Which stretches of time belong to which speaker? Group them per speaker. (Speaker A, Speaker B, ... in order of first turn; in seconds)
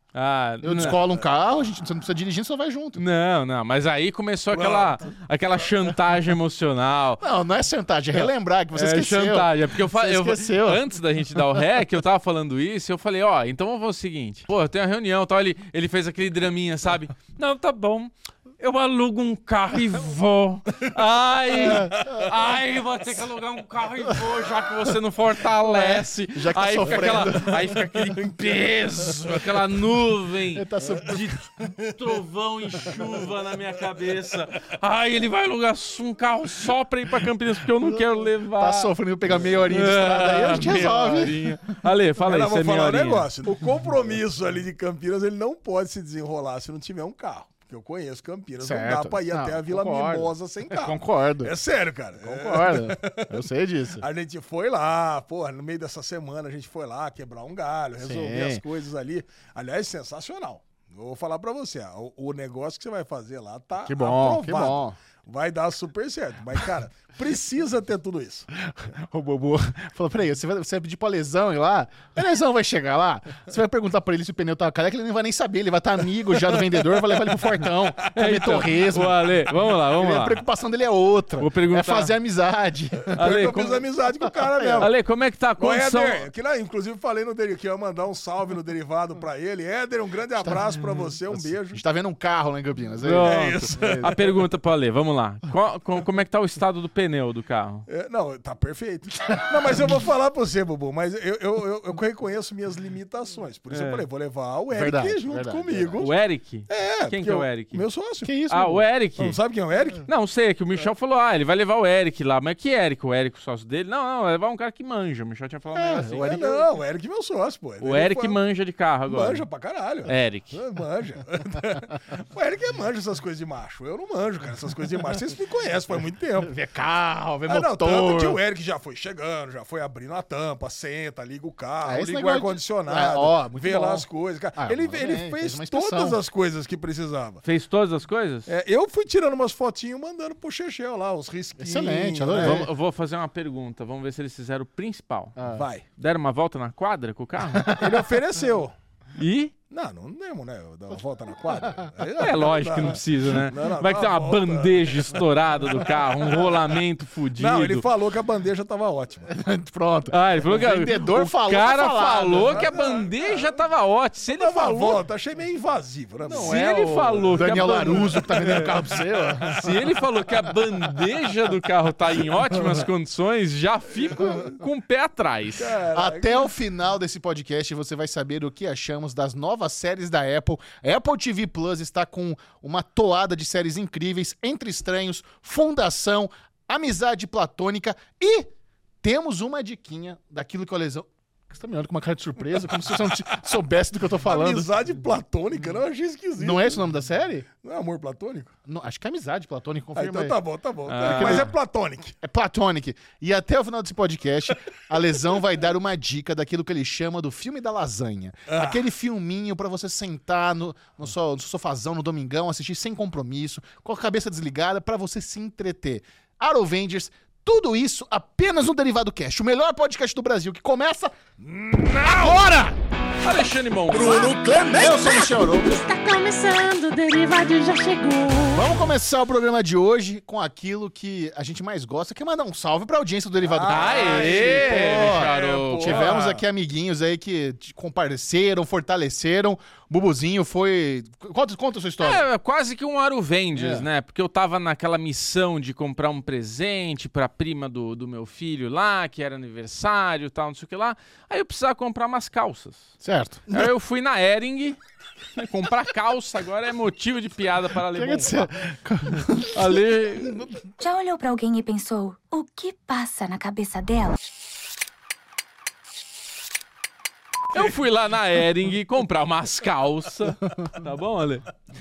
Speaker A: 0.1-1.0, 3.0-7.2, 8.2-38.9, 39.7-43.3, 78.1-80.4, 81.4-82.2, 83.1-83.8, 84.8-86.3, 93.0-97.9, 103.7-104.0, 106.0-107.8, 108.5-109.4, 110.1-116.3, 117.8-119.4, 120.1-120.6, 137.4-138.5, 142.3-145.3, 146.0-147.7, 149.2-149.5, 152.2-157.9, 160.1-165.0, 166.3-168.6, 169.5-175.7, 200.9-201.5, 223.2-224.4, 233.7-236.1, 242.0-252.9, 253.5-254.8, 255.3-258.5, 259.5-260.5, 267.5-271.5
Speaker B: 0.6-3.0, 7.2-10.9, 21.6-22.0, 25.6-28.1, 30.5-31.4, 38.5-41.5, 48.6-51.5, 52.2-54.1, 58.0-58.6, 63.9-65.0, 68.6-83.2, 84.2-84.9, 90.4-94.2, 104.7-106.1, 108.2-108.9, 115.7-116.7, 126.4-128.4, 131.8-136.2, 141.6-142.7, 145.4-145.7, 147.5-148.1, 159.3-162.8, 166.2-169.9, 175.9-188.5, 189.0-194.7, 196.4-197.5, 198.7-200.4, 201.0-201.6, 202.2-221.2, 222.1-222.8, 223.9-225.8, 228.5-242.3, 243.5-243.9, 253.0-253.7, 257.9-260.4
Speaker C: 0.8-1.1, 4.5-5.0, 42.2-53.4, 54.0-68.5, 76.6-77.3, 83.1-84.9, 85.6-91.8, 93.2-94.2, 97.9-106.2, 106.7-108.3, 109.2-110.1, 116.2-118.4, 119.1-126.5, 127.5-137.4, 138.5-142.7, 145.5-145.9, 147.8-148.7, 149.7-155.2, 157.4-159.3, 162.4-163.6, 164.3-169.0, 174.1-174.5, 175.6-176.6, 194.2-196.8, 197.6-198.5, 199.9-202.1, 208.5-208.8, 221.4-222.6, 223.9-225.5, 233.4-236.4
Speaker D: 225.8-228.5
Speaker E: 260.8-264.2